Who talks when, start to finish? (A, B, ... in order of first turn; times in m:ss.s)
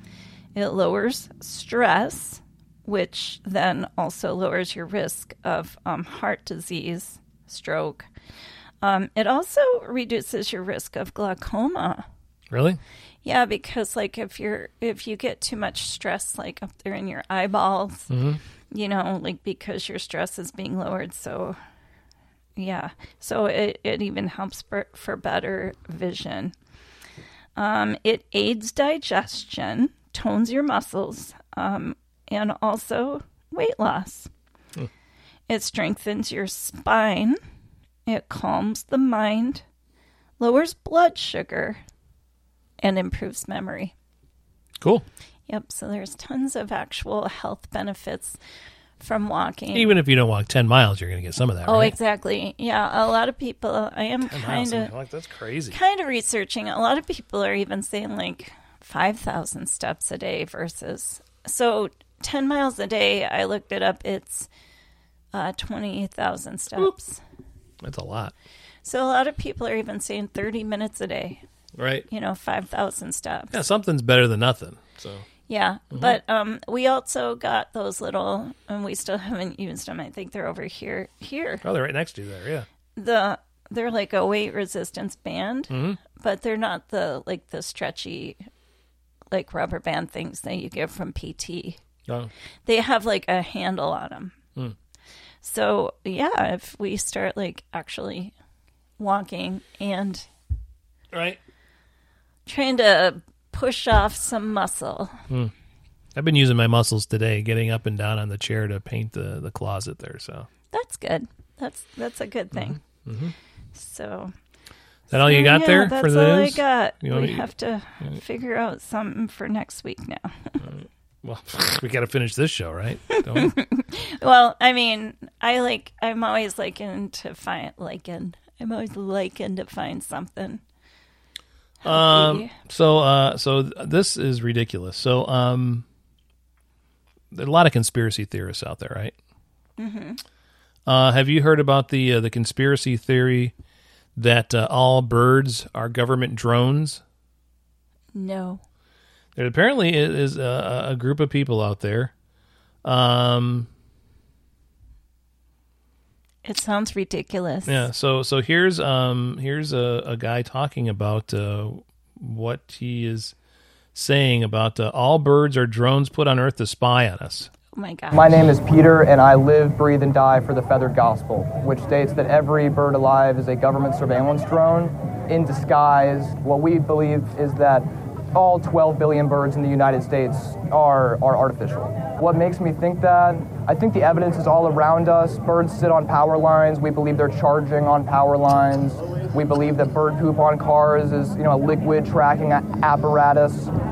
0:00.5-0:08.1 A
0:08.8-0:12.0 A
0:12.5-0:12.8 B
0:13.2-0:18.1 A
0:18.1-0:18.4 B
0:18.7-0:21.6 A
0:22.6-0:26.5 A
0:27.6-0:34.3 A
0:35.5-0:37.4 A
0:38.0-0:39.6 A
0:40.4-0:41.8 A
0:42.8-0:43.9 A
0:45.5-0:48.4 A
0:49.0-0:50.0 A
0:49.7-0:51.9 B
0:51.6-0:54.9 A
0:54.2-0:55.8 B
0:55.7-1:04.5 A
1:05.3-1:07.2 A
1:07.8-1:08.3 B
1:08.8-1:11.4 A
1:11.8-1:12.1 B
1:12.1-1:13.6 A
1:13.5-1:15.2 B
1:15.5-1:21.6 A
1:21.6-1:22.7 B
1:23.0-1:28.4 A
1:25.7-1:26.0 B
1:29.3-1:31.8 A
1:32.6-1:34.3 A
1:35.4-1:38.3 A
1:39.0-1:40.2 A
1:41.1-1:41.4 B
1:42.5-1:45.2 A
1:46.1-1:50.5 B
1:50.7-1:52.8 A
1:52.5-1:53.3 B
1:53.7-1:54.3 A
1:55.1-1:57.5 B
1:55.1-2:00.6 A
2:00.6-2:03.5 B
2:03.1-2:10.6 A
2:11.8-2:12.5 A
2:11.8-2:15.8 B
2:17.3-2:19.1 B
2:19.8-2:20.2 A
2:20.8-2:23.5 B
2:24.2-2:27.0 B
2:28.1-2:28.6 A
2:29.4-2:32.1 B
2:32.8-2:33.7 B
2:36.4-2:37.9 A
2:37.6-2:43.3 B
2:43.9-2:47.5 B
2:47.7-2:48.4 A
2:48.1-3:13.7 C